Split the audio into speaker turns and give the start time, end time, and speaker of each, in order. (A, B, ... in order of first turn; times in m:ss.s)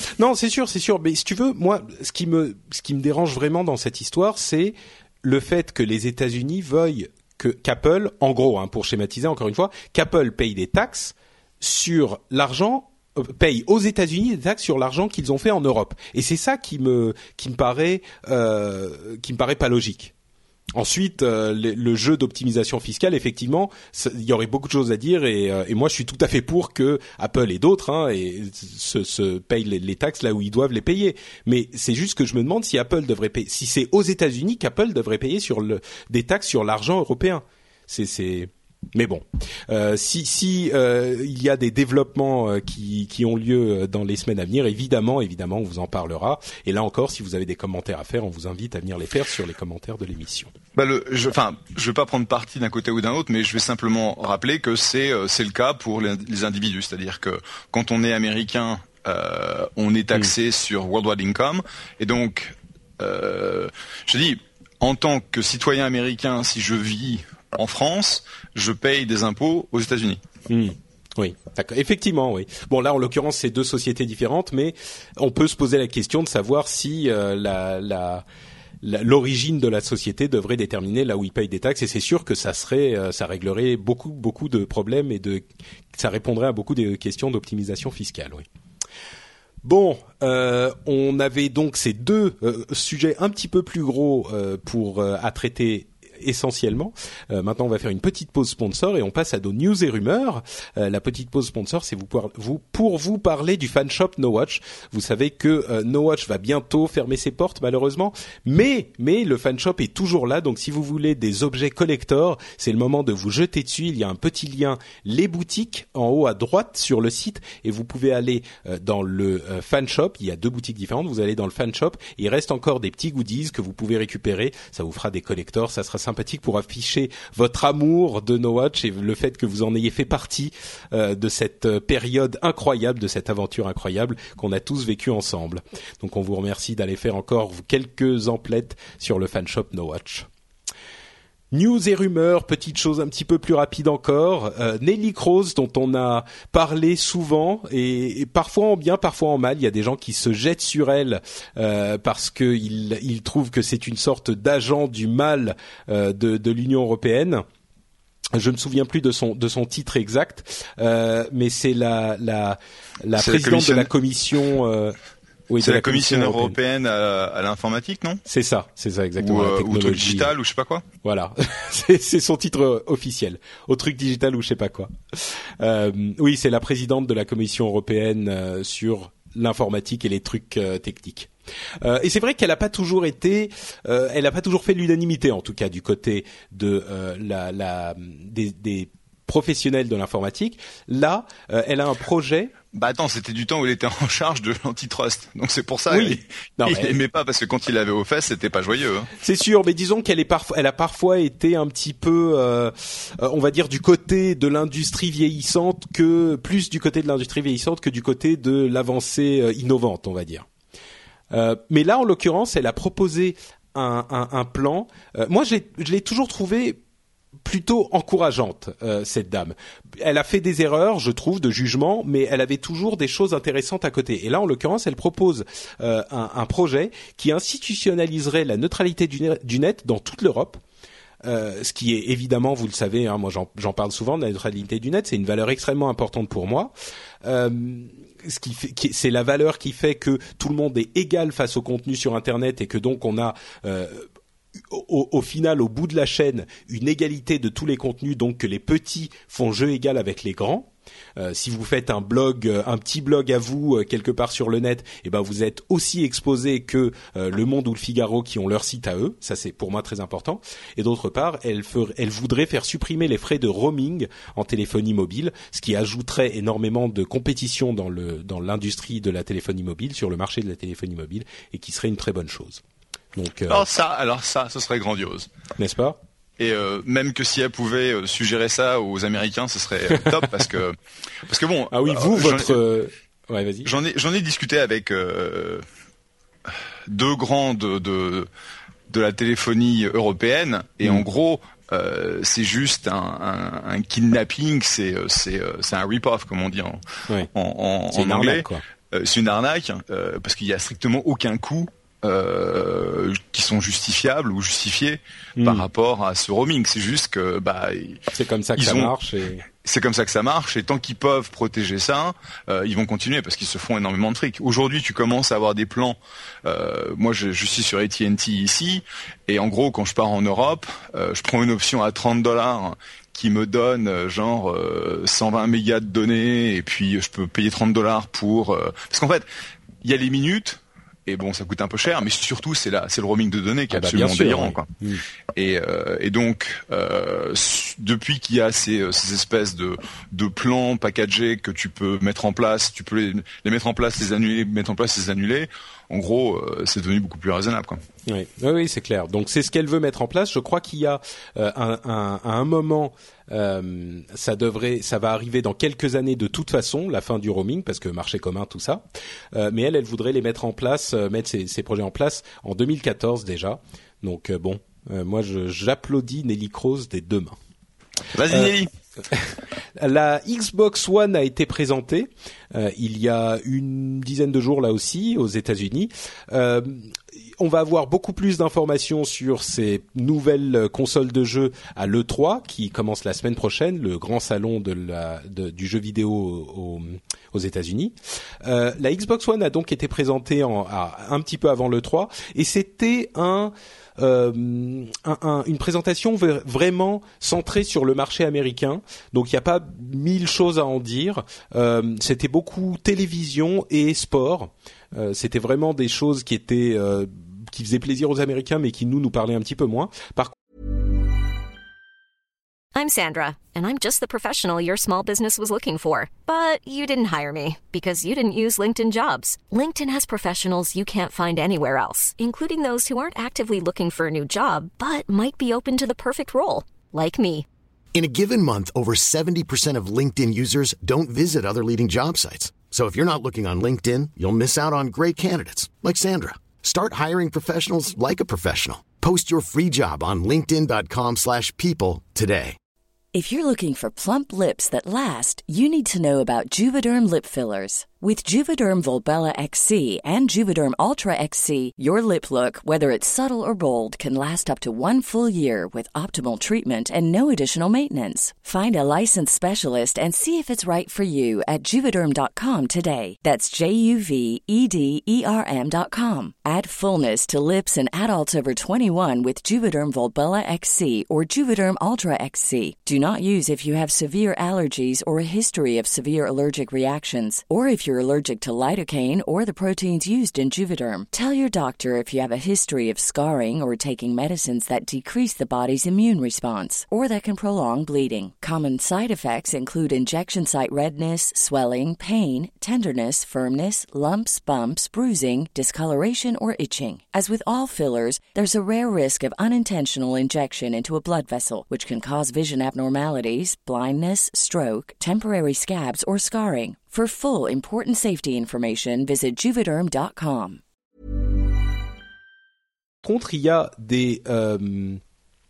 0:00.2-0:20.1 A
0:20.8-0:50.5 A
0:50.8-1:10.2 B
1:10.5-1:18.3 A
1:18.8-1:28.4 A
1:29.6-2:20.3 A
2:21.5-2:37.4 A
2:38.3-2:45.0 A
2:43.2-2:43.9 B
2:45.5-2:46.6 A
2:45.6-2:48.2 B
2:48.3-2:50.3 A
2:49.2-2:50.8 B
2:51.0-3:01.3 A
3:01.8-3:12.5 A
3:12.7-3:19.1 B
3:15.9-3:17.0 A
3:19.2-3:30.5 A
3:31.3-3:36.8 A
3:37.4-3:50.6 A
3:51.2-3:56.7 A
3:57.2-4:04.0 A
4:04.7-4:32.6 A
4:33.2-4:33.6 A
4:33.5-4:35.3 B
4:35.6-4:36.0 A
4:36.4-4:42.6 B
4:41.7-4:43.7 A
4:43.6-4:45.6 B
4:46.5-4:48.3 B
4:48.9-5:08.0 B
4:57.9-4:58.6 A
5:05.4-5:05.7 A
5:08.1-5:09.4 A
5:08.6-5:08.9 B
5:09.5-5:29.3 B
5:29.8-5:34.7 B
5:33.7-5:35.0 A
5:35.4-5:47.8 B
5:48.1-6:07.4 A
6:08.1-6:08.7 B
6:09.1-6:50.3 A
6:52.8-7:07.5 C
7:07.9-7:22.6 D
7:23.1-8:30.6 E
8:33.0-8:35.0 A